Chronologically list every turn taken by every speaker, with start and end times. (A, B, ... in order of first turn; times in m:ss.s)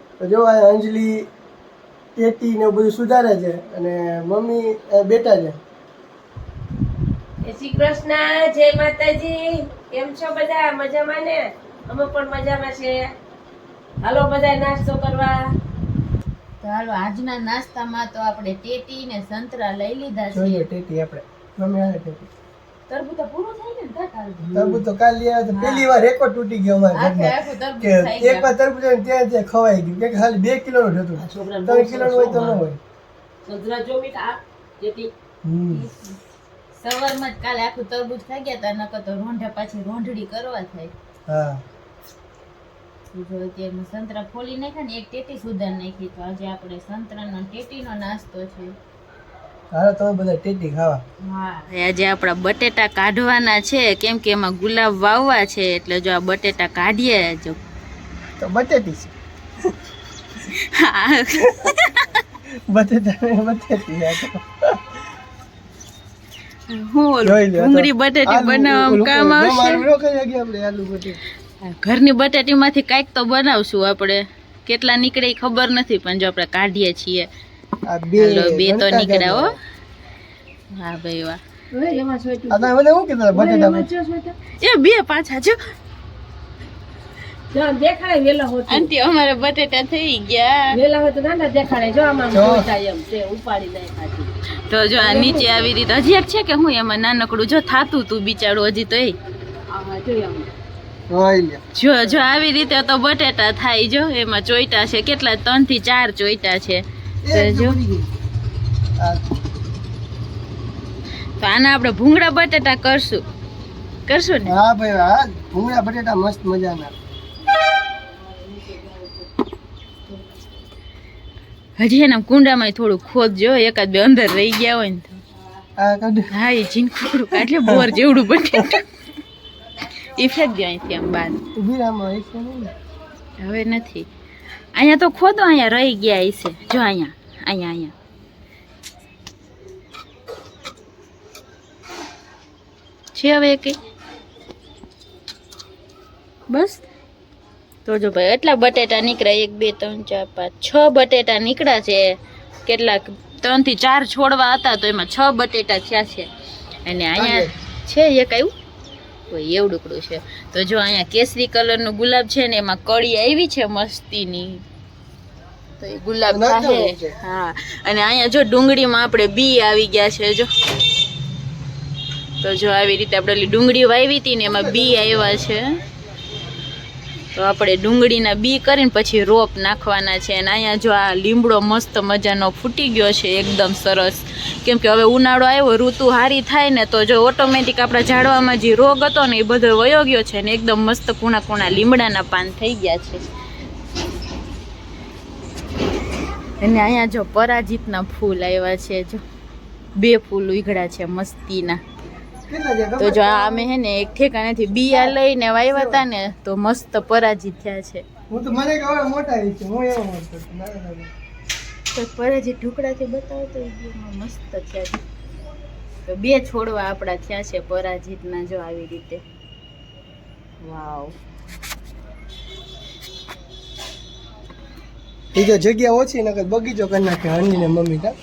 0:00.2-0:01.3 A
0:02.2-0:05.6 A
0:07.4-0:13.1 B
0:14.0-0:15.4 B
0:16.6-0:20.6 C
0:20.3-0:22.3 A
0:22.9-0:24.6 C
0:24.5-0:32.8 A
0:25.5-0:25.9 C
0:26.9-0:28.5 C
0:31.2-0:32.6 B
0:33.4-0:35.1 B
0:35.4-0:35.8 A
0:35.7-0:36.2 C
0:36.7-0:40.9 C
0:41.3-0:41.6 A
0:43.1-0:48.7 C
0:49.7-0:51.0 A
0:51.2-0:57.6 C
0:58.4-0:59.1 A
1:00.5-1:02.2 C
1:02.7-1:04.9 A
1:06.7-1:09.8 C
1:07.2-1:11.2 A
1:11.6-1:17.3 C
1:17.9-1:19.6 A
1:18.2-1:19.6 C
1:20.7-1:21.4 C
1:21.7-1:22.7 B
1:22.5-1:23.9 A
1:23.3-1:24.4 B
1:24.5-1:25.6 C
1:27.5-1:28.9 B
1:28.6-1:30.8 C
1:30.7-1:34.3 B
1:32.3-1:32.7 A
1:34.7-1:39.1 C
1:35.0-1:35.7 B
1:39.7-1:40.5 B
1:41.1-1:41.6 A
1:41.7-1:47.8 C
1:47.2-1:48.1 A
1:51.4-1:53.2 C
1:54.0-1:54.6 C
1:54.4-1:56.9 A
1:58.0-1:59.3 B
2:01.8-2:05.2 C
2:05.8-2:06.2 A
2:06.3-2:08.9 C
2:07.4-2:08.0 A
2:10.1-2:11.4 C
2:11.6-2:12.7 A
2:13.4-2:14.1 C
2:14.7-2:17.9 C
2:23.1-2:23.8 C
2:26.5-2:26.8 C
2:27.8-2:36.3 C
2:36.8-2:38.5 C
2:37.2-2:37.5 A
2:39.3-2:44.6 C
2:45.8-2:50.5 C
2:46.3-2:47.1 A
2:52.4-2:55.8 C
2:57.3-3:13.3 C
3:16.6-3:19.2 C
3:20.0-3:21.8 C
3:22.5-3:23.7 A
3:23.0-3:28.0 C
3:24.9-3:25.2 A
3:25.7-3:26.0 A
3:28.3-3:31.1 A
3:31.9-3:35.0 C
3:36.0-3:39.2 C
3:40.6-3:41.1 C
3:45.3-3:48.1 A